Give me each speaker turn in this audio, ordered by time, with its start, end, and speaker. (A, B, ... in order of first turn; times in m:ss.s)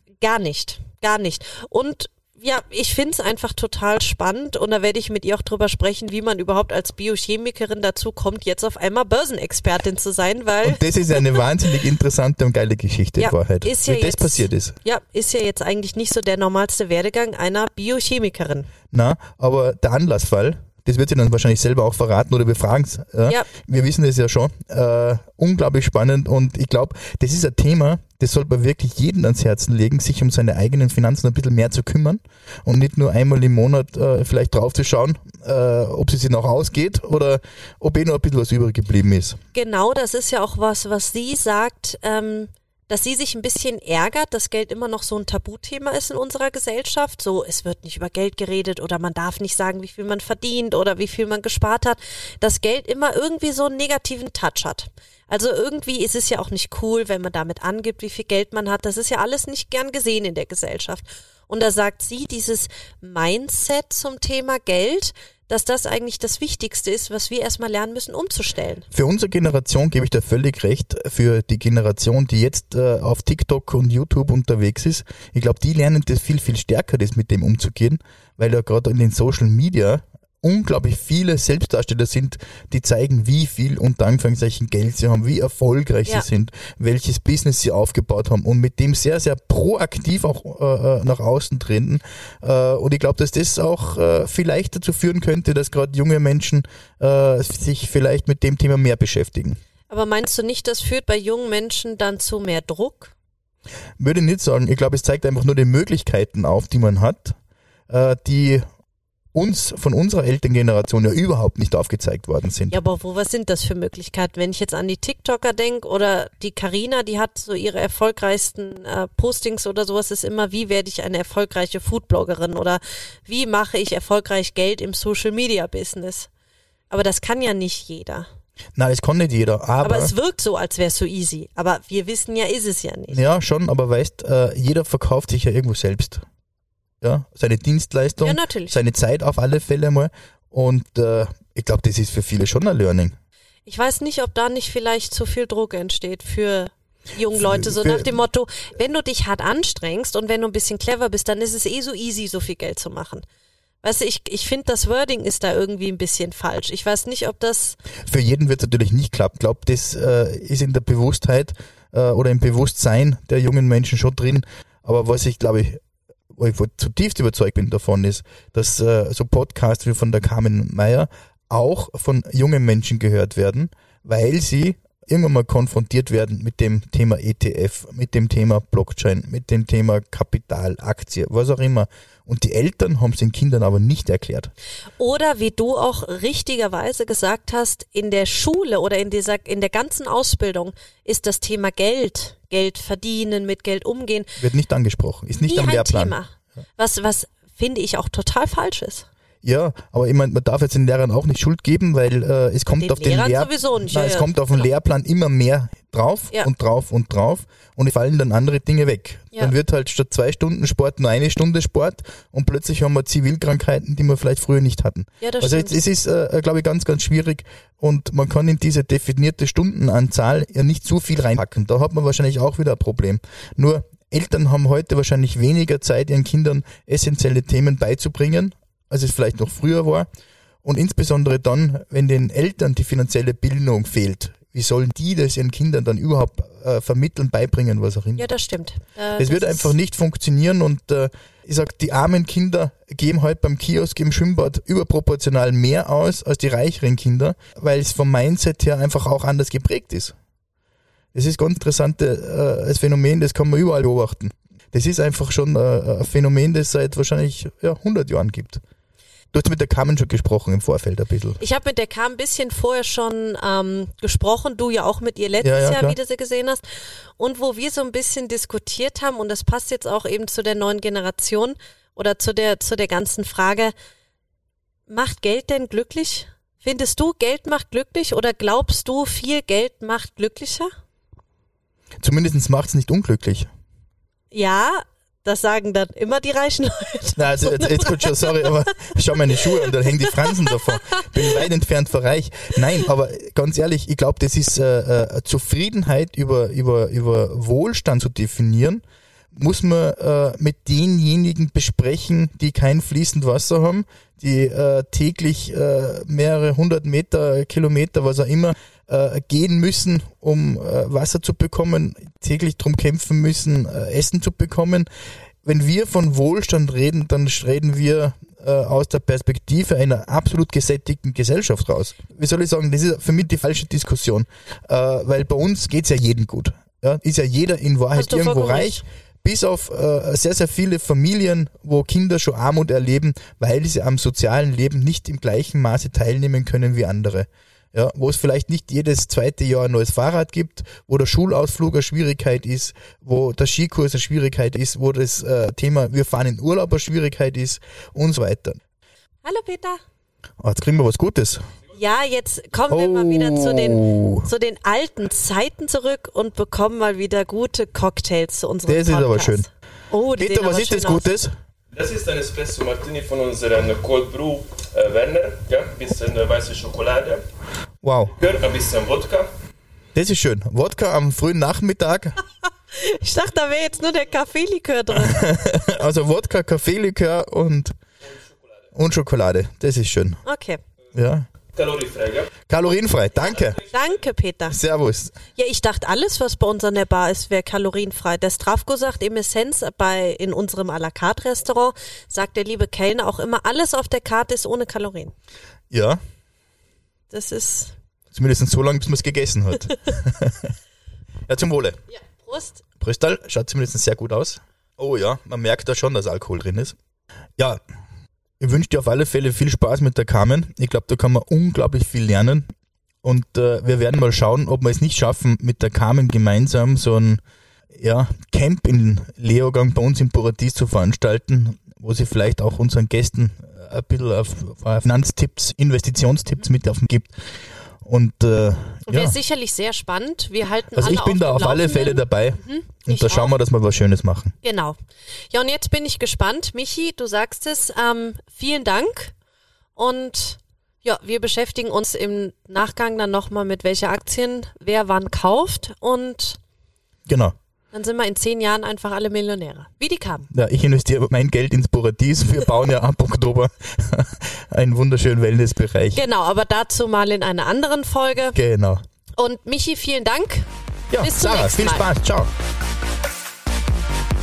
0:00.2-0:11.4 A
0:10.6-0:14.7 B
0:13.2-0:18.7 A
0:18.9-0:39.4 B
0:39.5-1:08.8 A
1:08.9-1:39.6 B
1:39.9-1:43.1 A
1:44.0-1:47.4 B
1:47.9-1:48.7 B
1:49.3-1:52.8 B
1:52.7-2:06.3 A
2:06.9-2:08.3 A
2:08.8-2:10.1 B
2:09.8-2:13.2 A
2:13.1-2:16.2 B
2:17.0-2:23.2 B
2:18.2-2:18.8 A
2:23.6-2:33.2 A
2:27.3-2:28.1 B
2:33.8-2:37.8 A
2:38.0-2:45.8 B
2:46.3-3:04.5 B
3:05.0-3:14.3 A
3:14.4-3:16.1 B
3:15.3-3:19.1 A
3:19.4-3:50.1 B
3:22.8-3:24.3 A
3:35.2-3:35.8 A
3:50.6-3:58.3 B
3:58.2-3:59.7 A
3:59.2-4:10.1 B
4:11.1-4:18.6 B
4:19.3-4:21.4 B
4:21.4-4:26.6 A
4:25.4-4:26.0 B
4:27.2-4:33.7 A
4:34.9-4:40.7 A
4:42.0-4:43.5 B
4:44.3-4:51.4 A
4:47.2-4:58.8 B
4:59.3-5:14.9 B
5:15.4-5:48.6 B
5:27.9-5:28.8 A
5:49.2-5:49.8 A
5:50.4-5:51.4 B
5:51.7-6:01.1 A
5:52.7-5:54.3 B
5:58.6-5:59.4 B
6:00.2-6:01.3 B
6:01.7-6:07.2 C
6:07.8-6:08.2 B
6:08.2-6:09.3 C
6:09.9-6:12.2 B
6:12.7-6:15.3 A
6:14.9-6:17.7 B
6:18.7-6:20.2 B
6:20.2-6:20.6 A
6:20.9-6:21.3 B
6:21.5-6:22.3 C
6:22.5-6:23.6 B
6:23.7-6:24.6 A
6:24.5-6:25.2 B
6:25.3-6:35.1 A
6:35.7-6:36.0 B
6:37.1-6:37.8 A
6:38.1-6:40.5 B
6:41.3-6:41.8 B
6:41.9-6:42.6 A
6:42.8-6:46.8 B
6:47.4-6:47.6 B
6:48.4-6:52.5 B
6:53.0-6:57.2 B
6:57.7-7:07.1 B
7:07.8-7:09.1 B
7:08.8-7:13.3 A
7:10.7-7:14.3 B
7:14.4-7:14.8 A
7:15.3-7:19.1 A
7:19.8-7:26.4 A
7:27.0-7:27.4 B
7:27.7-7:30.3 A
7:30.3-7:36.0 B
7:35.9-7:38.4 A
7:38.3-7:38.8 B
7:39.2-7:40.5 A
7:40.9-7:42.3 B
7:41.0-7:41.9 A